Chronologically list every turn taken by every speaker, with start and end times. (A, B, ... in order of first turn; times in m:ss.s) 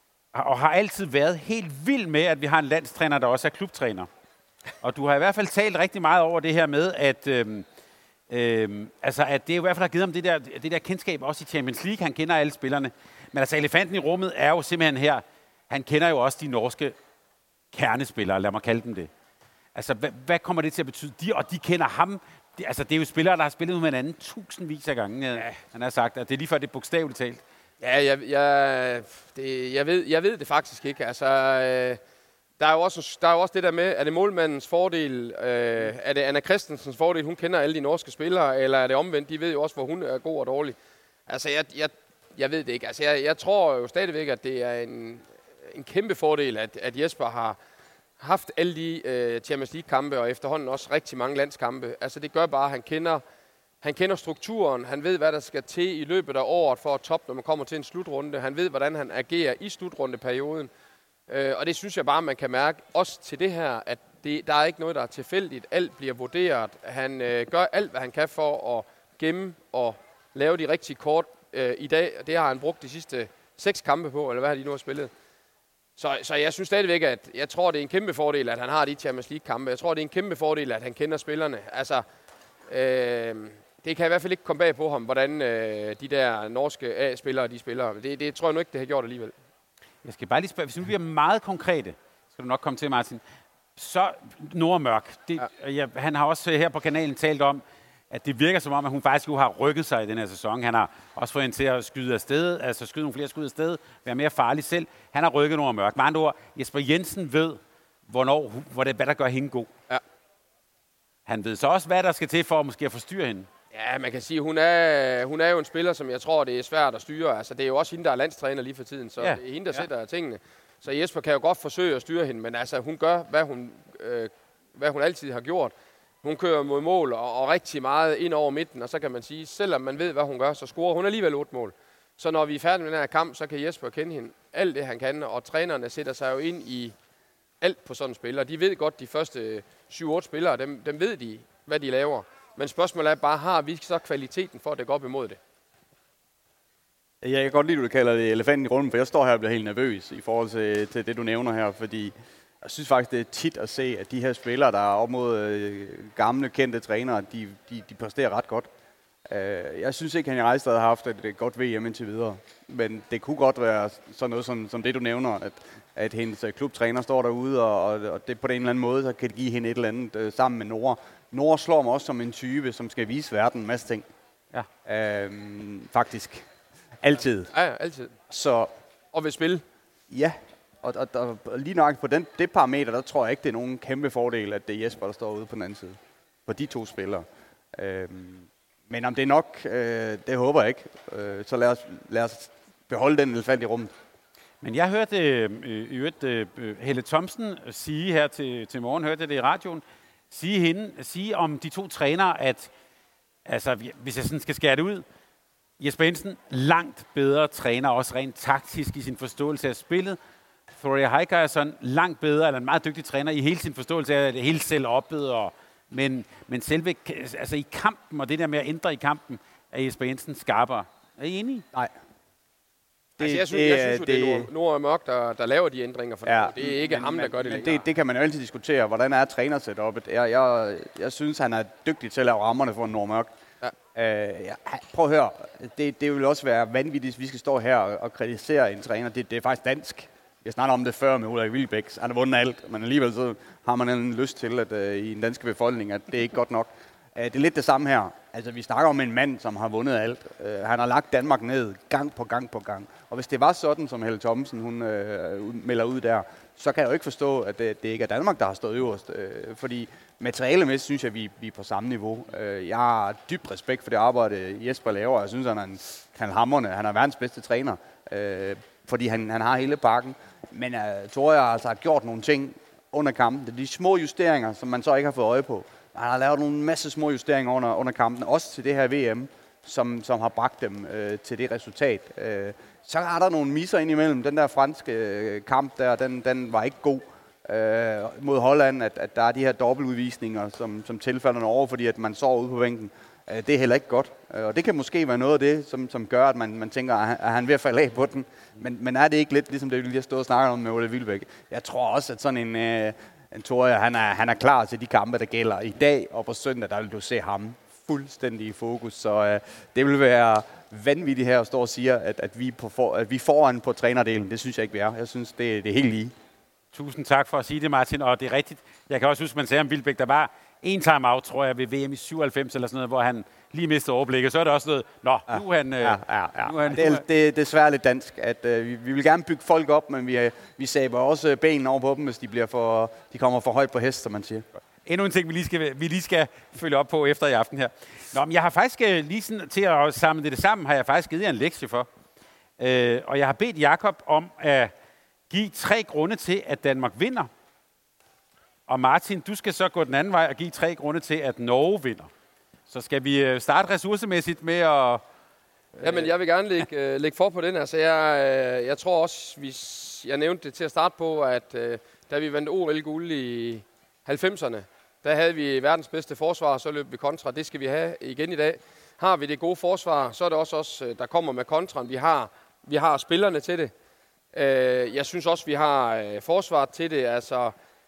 0:00.3-0:04.1 A
0:04.8-0:07.6 A
0:08.3-0:17.0 A
0:17.7-0:19.1 A
0:19.8-0:27.4 A
0:27.8-0:32.0 B
0:32.6-0:40.8 B
0:41.3-0:47.6 B
0:48.2-0:53.2 B
0:53.8-1:00.7 B
1:01.3-1:15.1 B
1:16.0-1:22.0 B
1:22.7-1:29.3 B
1:30.0-1:33.2 A
1:33.8-1:49.7 A
1:51.3-1:53.5 A
1:53.7-2:16.9 B
1:59.2-1:59.8 A
2:17.6-2:25.4 B
2:27.2-2:38.7 C
2:39.3-2:54.1 C
2:54.8-2:56.5 C
2:57.0-2:57.5 C
2:57.5-2:58.1 B
2:58.3-2:58.7 C
2:59.1-2:59.6 B
3:00.1-3:13.9 C
3:14.6-3:22.7 A
3:23.4-3:25.0 A
3:25.8-3:30.2 A
3:30.8-3:41.6 A
3:43.2-3:44.5 C
3:43.2-3:47.8 B
3:46.2-3:53.3 C
3:53.9-5:16.1 C
5:16.7-5:27.0 A
5:25.3-5:34.6 C
5:34.9-5:41.9 A
5:42.6-5:44.7 A
5:45.3-5:47.3 A
5:48.7-5:52.1 A
5:52.7-5:55.0 A
5:55.8-6:13.7 B
6:14.3-6:17.5 B